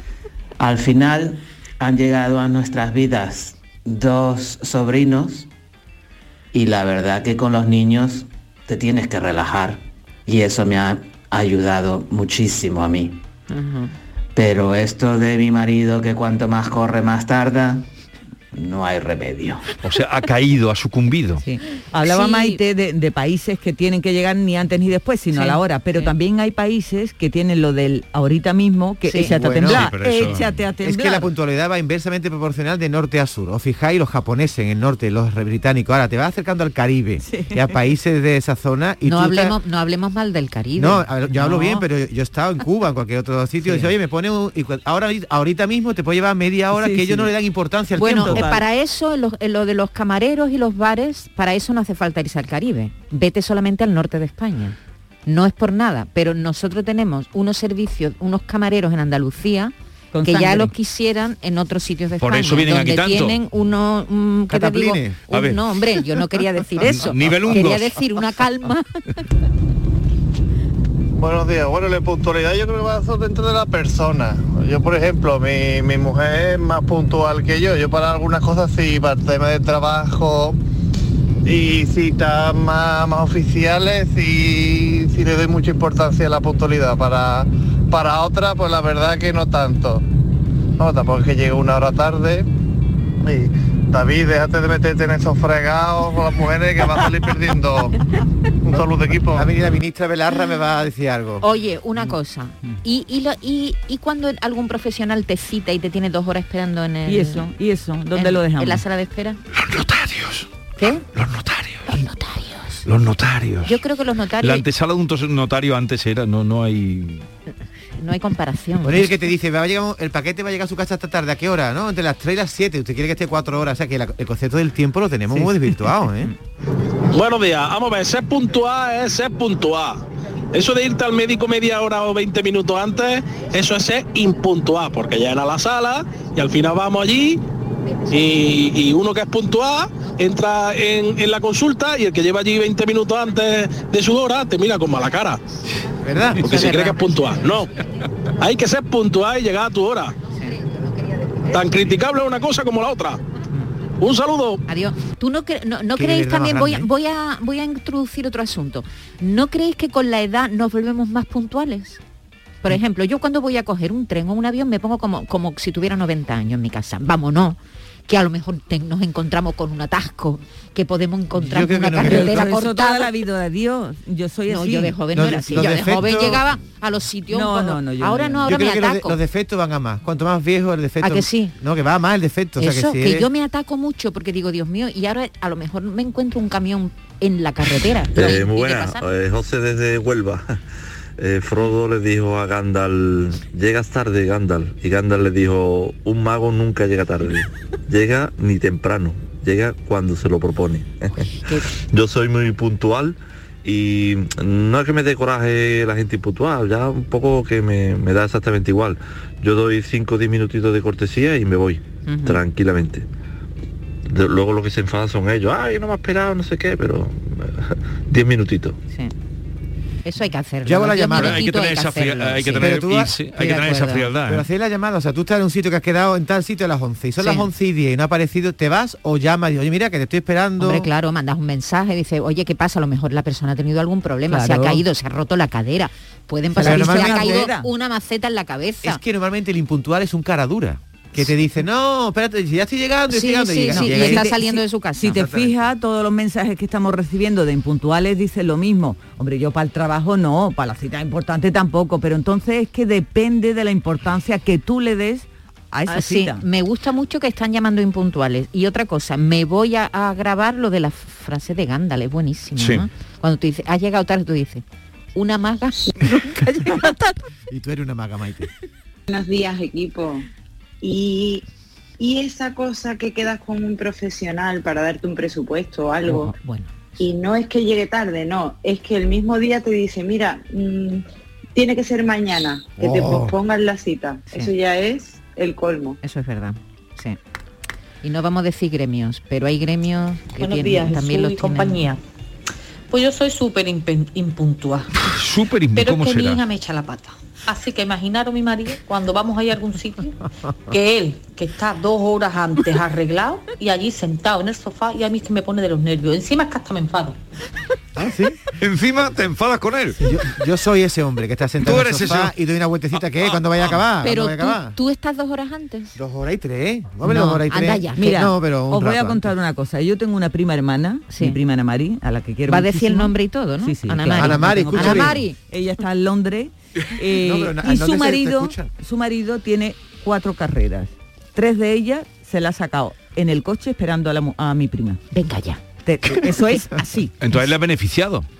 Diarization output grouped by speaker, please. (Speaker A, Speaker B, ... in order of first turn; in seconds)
Speaker A: 0.6-5.5, 6.5-13.2, 14.3-17.9, 18.5-19.6
Speaker B: 13.5-13.9, 22.0-22.6, 25.3-26.1, 29.1-29.3, 39.0-41.8, 48.0-59.7, 60.2-68.8, 101.4-107.5, 108.1-109.4, 110.8-111.0, 111.9-112.8, 113.6-114.7, 118.0-119.3, 146.4-147.0, 154.7-162.0, 162.6-173.1, 174.5-179.2, 181.0-181.6, 182.6-189.0, 201.2-201.7, 212.1-212.4, 220.0-222.8, 223.4-224.1, 227.2-227.5, 230.6-239.0, 243.1-245.2, 255.9-267.0, 276.1-276.8, 286.0-287.2, 288.0-291.8, 314.0-315.9, 317.0-318.2, 321.1-321.4, 322.5-325.3, 335.1-335.6
Speaker C: 19.8-21.4, 29.6-30.6, 62.2-63.4, 65.3-65.6, 66.8-68.2, 109.5-110.5, 111.1-112.0, 112.8-113.8, 114.4-117.2, 221.1-224.4, 262.6-262.9, 295.0-296.4, 308.6-310.1, 311.6-312.4, 312.9-313.8, 337.2-338.3
Speaker D: 21.5-31.3, 37.2-37.6, 46.7-47.3, 48.1-48.6, 60.1-60.7, 107.0-108.8, 172.0-176.3, 177.3-178.6, 234.3-234.8, 236.5-237.7, 243.7-256.4, 318.0-335.0, 335.8-337.2
Speaker E: 29.2-29.9, 30.8-39.5, 40.8-48.5, 64.5-65.2, 98.7-101.4, 118.8-126.3, 146.0-146.6, 155.9-156.9, 171.4-172.5, 175.1-176.4, 178.4-183.3, 220.6-221.4, 222.6-223.2, 224.2-230.9, 236.6-237.5, 238.8-244.6, 267.5-268.5, 307.9-308.4, 310.0-314.8, 315.9-319.3, 324.1-325.2, 327.1-328.7
Speaker F: 71.1-80.6, 81.4-90.0, 90.8-92.5, 93.2-98.0, 98.7-99.5
Speaker G: 127.1-130.0, 130.5-137.4, 138.1-145.4, 146.5-147.7, 148.4-150.1, 151.5-153.2, 154.0-154.6
Speaker H: 188.1-190.6, 191.2-213.1, 214.1-218.8
Speaker I: 269.1-270.2, 270.8-271.4, 272.0-276.3, 277.0-280.9, 281.6-285.9
Speaker J: 290.4-292.0, 292.9-294.9, 295.7-300.1, 300.7-307.2